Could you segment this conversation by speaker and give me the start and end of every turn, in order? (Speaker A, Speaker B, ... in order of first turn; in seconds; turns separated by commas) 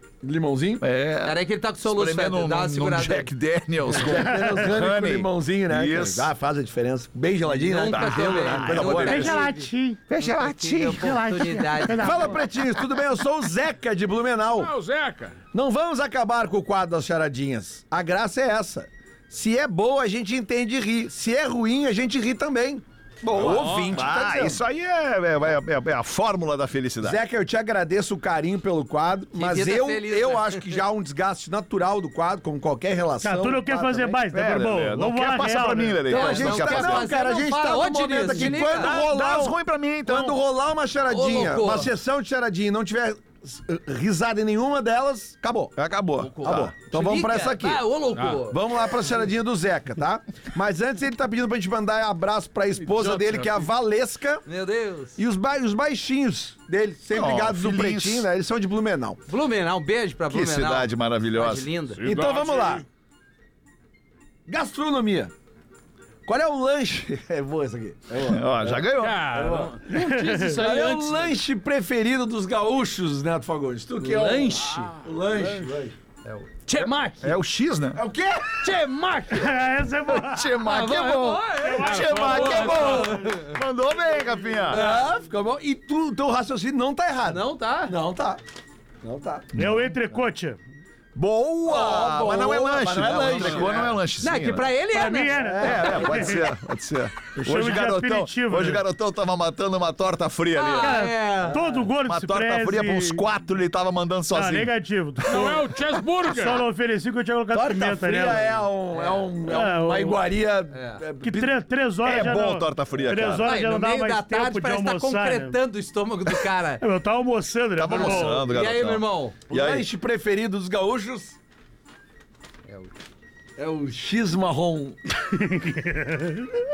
Speaker A: 0.2-0.8, Speaker B: 0.8-6.3, Speaker C: 1.2-3.3, Speaker A: 3.9-9.3, Speaker C: 7.6-9.7, Speaker B: 7.8-9.4, Speaker D: 9.0-10.0, Speaker B: 10.1-11.9, Speaker C: 10.2-12.4, Speaker D: 10.9-12.4, Speaker A: 12.0-14.7, Speaker E: 14.6-15.4, Speaker A: 15.5-24.6, Speaker B: 23.3-27.2, Speaker E: 23.4-23.9, Speaker A: 27.0-34.2, Speaker C: 29.3-30.7, Speaker D: 33.2-36.1, Speaker B: 34.3-37.1, Speaker C: 36.1-39.0, Speaker A: 36.1-45.8, Speaker B: 38.4-40.4, Speaker C: 41.1-41.9, Speaker B: 45.8-46.7, Speaker C: 46.2-48.6, Speaker A: 46.4-47.8, Speaker E: 48.1-48.4, Speaker A: 48.5-54.5, Speaker E: 52.8-53.6, Speaker C: 54.5-55.2, Speaker A: 55.2-59.2, Speaker B: 57.1-58.3, Speaker C: 59.3-62.1, Speaker B: 60.3-61.7, Speaker E: 62.0-62.9, Speaker A: 62.0-62.9, Speaker A: 64.5-65.3, Speaker A: 66.3-76.0, Speaker B: 68.2-69.3, Speaker E: 69.0-71.4, Speaker D: 69.9-70.5, Speaker C: 74.0-75.0, Speaker E: 74.6-75.7, Speaker C: 76.2-77.3, Speaker B: 76.8-78.0, Speaker A: 78.0-78.7, Speaker C: 78.5-79.6, Speaker D: 79.3-80.5, Speaker B: 80.1-84.8, Speaker C: 80.6-83.5, Speaker D: 81.6-83.3, Speaker E: 81.8-83.2, Speaker C: 84.7-85.2, Speaker A: 84.7-88.4, Speaker C: 87.3-88.0, Speaker A: 89.0-89.5, Speaker D: 89.6-90.6, Speaker B: 89.6-89.8, Speaker B: 91.2-94.7, Speaker A: 91.7-94.0, Speaker C: 93.0-95.7, Speaker D: 94.9-96.5, Speaker A: 95.4-96.3, Speaker B: 95.6-101.0, Speaker D: 97.3-98.8, Speaker C: 100.5-101.6, Speaker D: 100.8-103.2, Speaker A: 101.4-101.7, Speaker B: 102.0-104.7, Speaker D: 104.3-105.7, Speaker E: 105.3-106.6, Speaker D: 106.2-108.4, Speaker A: 107.5-111.5, Speaker C: 108.9-109.3, Speaker D: 109.5-110.2, Speaker C: 110.7-111.0, Speaker D: 111.2-115.6, Speaker B: 112.0-113.5, Speaker C: 113.4-116.8, Speaker D: 116.8-118.5, Speaker B: 117.8-119.9, Speaker C: 117.9-119.4, Speaker A: 119.5-121.4, Speaker C: 122.7-122.9, Speaker A: 123.6-125.0, Speaker D: 125.2-126.5